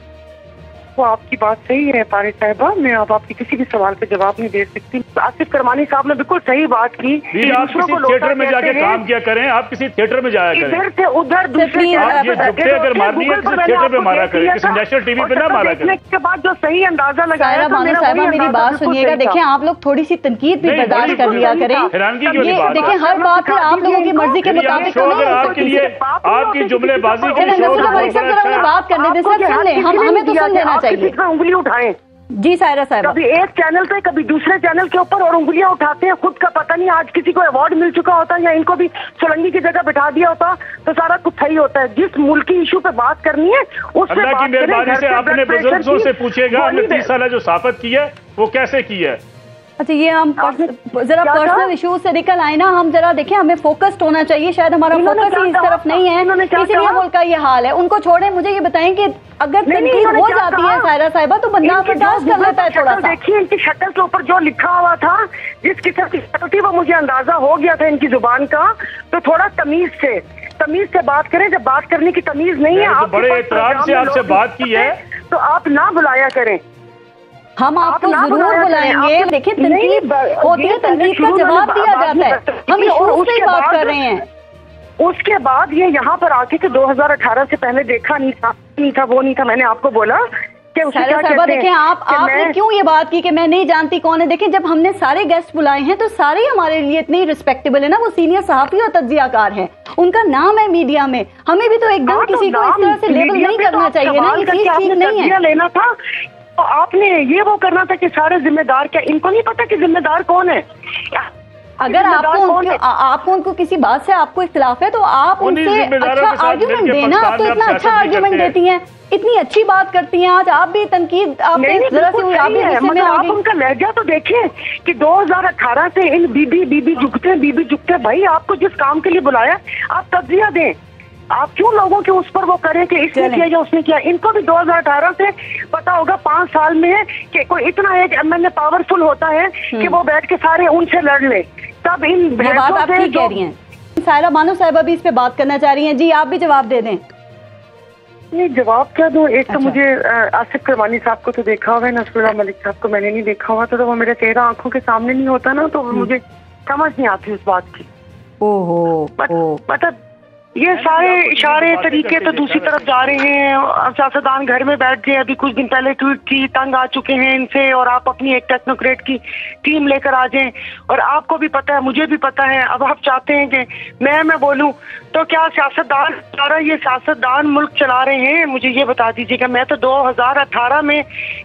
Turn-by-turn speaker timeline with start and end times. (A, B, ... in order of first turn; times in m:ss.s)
0:01.0-0:09.0 A
0:07.3-0:10.8 B
0:10.5-0:19.4 A
0:11.6-0:12.5 C
0:11.9-0:16.0 B
0:17.3-0:25.8 C
0:20.6-0:23.0 B
0:20.9-0:32.0 A
0:24.4-0:28.7 B
0:27.3-0:31.1 C
0:32.4-0:33.2 C
0:33.0-0:47.1 A
0:44.1-0:49.2 B
0:49.8-1:03.2 C
0:50.4-0:50.7 A
0:51.2-0:51.7 A
0:54.9-0:57.0 A
0:59.7-1:00.9 A
1:01.6-1:16.6 A
1:12.7-1:15.0 B
1:17.6-1:24.2 C
1:17.8-1:24.0 A
1:25.0-1:32.6 A
1:30.9-1:45.3 C
1:42.1-1:45.9 A
1:46.6-1:51.3 A
1:51.8-2:03.4 C
1:51.9-1:52.8 A
1:55.4-1:58.5 B
2:01.6-2:10.8 A
2:11.3-2:23.4 A
2:13.1-2:13.5 C
2:19.7-2:20.0 C
2:22.4-2:27.0 C
2:28.3-2:37.9 A
2:29.5-2:29.8 C
2:38.4-2:39.6 C
2:39.2-2:39.9 A
2:40.6-3:01.0 A
2:40.7-2:43.3 B